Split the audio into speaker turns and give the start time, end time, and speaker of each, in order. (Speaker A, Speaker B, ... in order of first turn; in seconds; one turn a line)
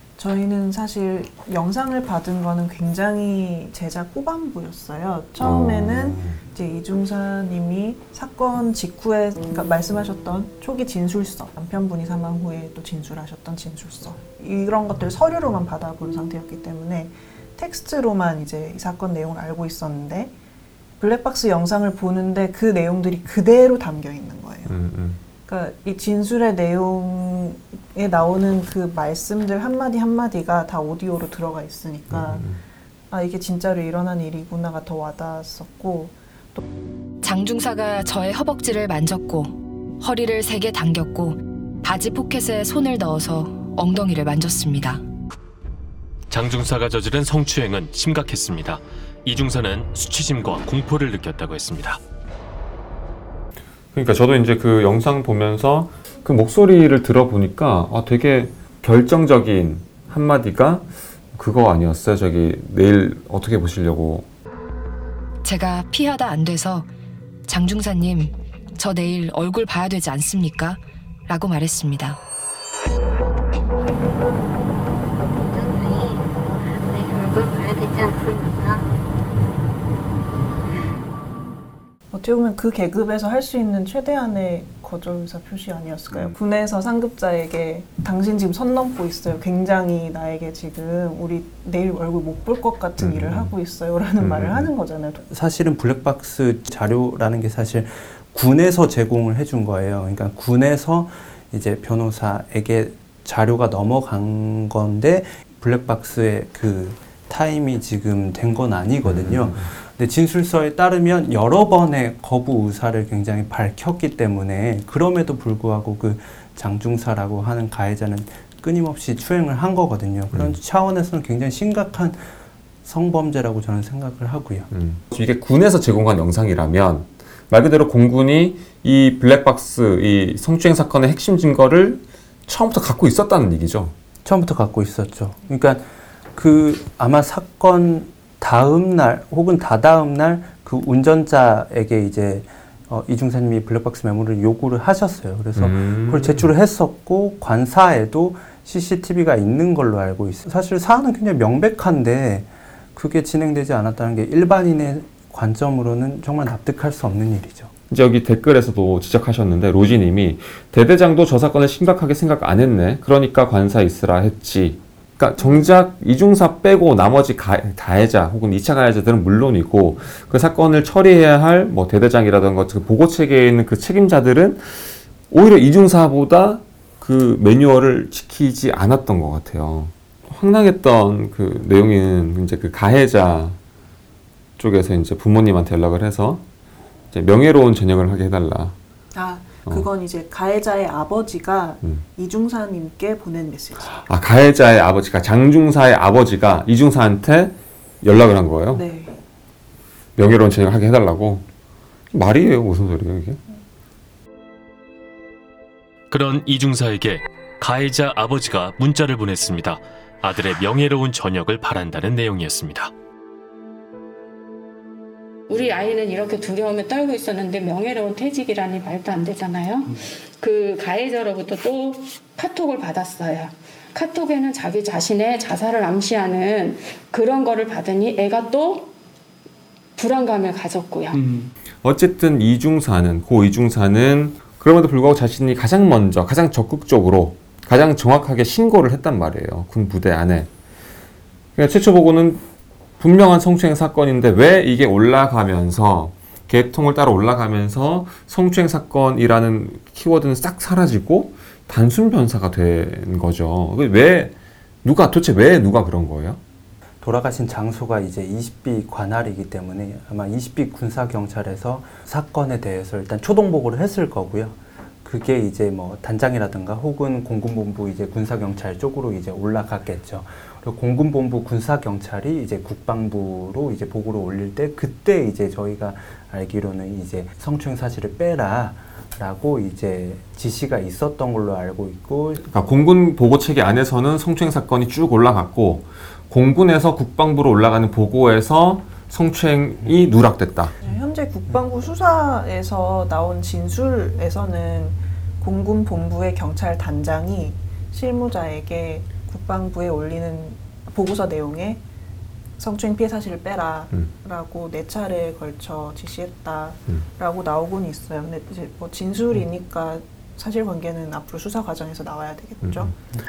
Speaker A: 0.2-20.3
Speaker B: 5.4-6.4
Speaker A: 21.0-24.8
Speaker B: 24.7-25.2
Speaker A: 25.4-32.5
Speaker B: 32.1-32.6
Speaker A: 33.1-36.6
Speaker C: 37.2-45.0
Speaker D: 46.3-52.0
Speaker B: 53.9-64.3
Speaker C: 65.4-66.9
Speaker C: 67.5-70.8
Speaker C: 71.3-72.1
Speaker E: 75.3-78.8
Speaker A: 82.1-95.2
Speaker B: 93.0-93.5
Speaker B: 94.2-94.7
Speaker F: 95.3-122.2
Speaker B: 109.1-109.5
Speaker F: 122.8-124.7
Speaker B: 124.7-133.9
Speaker F: 134.2-157.7
Speaker B: 145.6-146.5
Speaker B: 157.9-183.6
Speaker B: 184.6-186.4
Speaker B: 187.1-188.8
Speaker A: 189.1-194.1
Speaker B: 194.0-198.8
Speaker A: 198.7-199.2
Speaker B: 200.2-201.4
Speaker B: 202.1-203.4
Speaker D: 206.1-212.9
Speaker G: 215.7-219.6
Speaker G: 220.6-223.5
Speaker G: 224.1-228.9
Speaker B: 231.8-240.5
Speaker B: 241.6-242.4
Speaker B: 243.0-256.4
Speaker F: 257.0-282.4
Speaker B: 282.4-290.8
Speaker A: 290.8-301.8
Speaker A: 302.6-312.9
Speaker B: 312.6-312.9